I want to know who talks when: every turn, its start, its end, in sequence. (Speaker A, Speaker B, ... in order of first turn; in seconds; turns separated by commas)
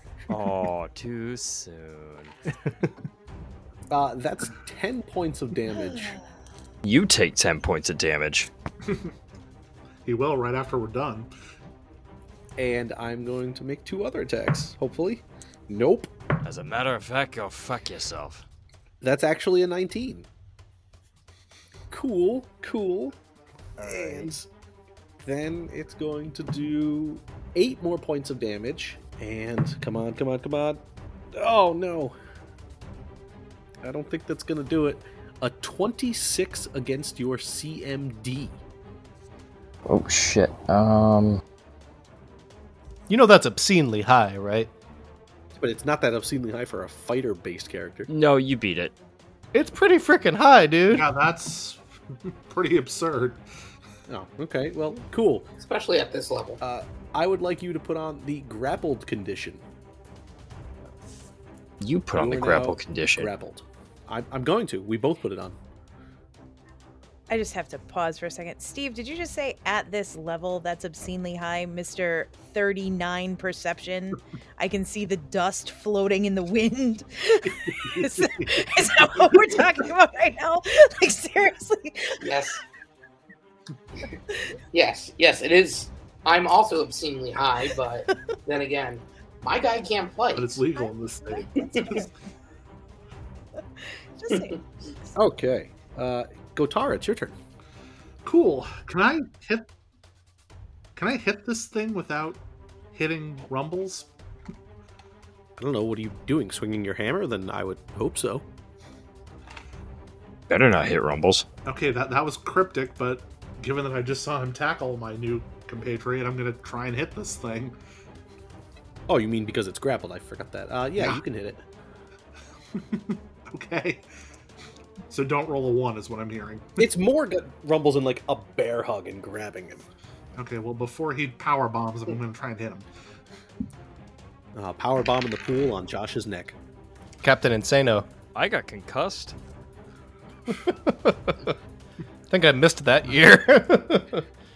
Speaker A: 0.3-2.3, Speaker B: 3.9-6.2, Speaker A: 6.8-8.5, Speaker C: 8.9-9.1, Speaker C: 10.0-11.3, Speaker B: 12.6-16.1, Speaker A: 16.4-18.4, Speaker B: 19.0-20.3, Speaker B: 21.9-23.1, Speaker A: 23.8-24.3, Speaker B: 23.8-24.5, Speaker B: 25.2-30.8, Speaker B: 31.4-32.1, Speaker B: 33.8-38.6, Speaker A: 39.9-41.4, Speaker D: 43.1-44.7, Speaker B: 45.5-48.1, Speaker A: 48.1-48.9, Speaker D: 49.5-51.1, Speaker C: 50.9-53.4, Speaker B: 54.1-55.5, Speaker E: 55.6-56.6, Speaker B: 56.6-59.6, Speaker A: 61.8-63.3, Speaker B: 62.1-65.5, Speaker F: 67.3-82.2, Speaker E: 82.2-82.6, Speaker E: 84.7-90.6, Speaker C: 90.4-92.1, Speaker F: 90.8-92.0, Speaker F: 94.2-94.6, Speaker E: 94.3-94.6, Speaker B: 95.1-97.4, Speaker C: 98.2-99.7, Speaker C: 101.0-102.4, Speaker C: 102.9-104.1, Speaker B: 105.6-108.4, Speaker A: 110.5-111.5, Speaker C: 111.7-117.8, Speaker B: 119.1-121.6, Speaker C: 121.0-121.2, Speaker C: 122.7-124.0, Speaker C: 125.1-126.8, Speaker B: 126.8-129.8, Speaker C: 130.4-132.9, Speaker B: 134.5-136.6, Speaker D: 137.2-138.1, Speaker A: 138.3-139.3, Speaker D: 140.5-141.5, Speaker D: 142.3-144.2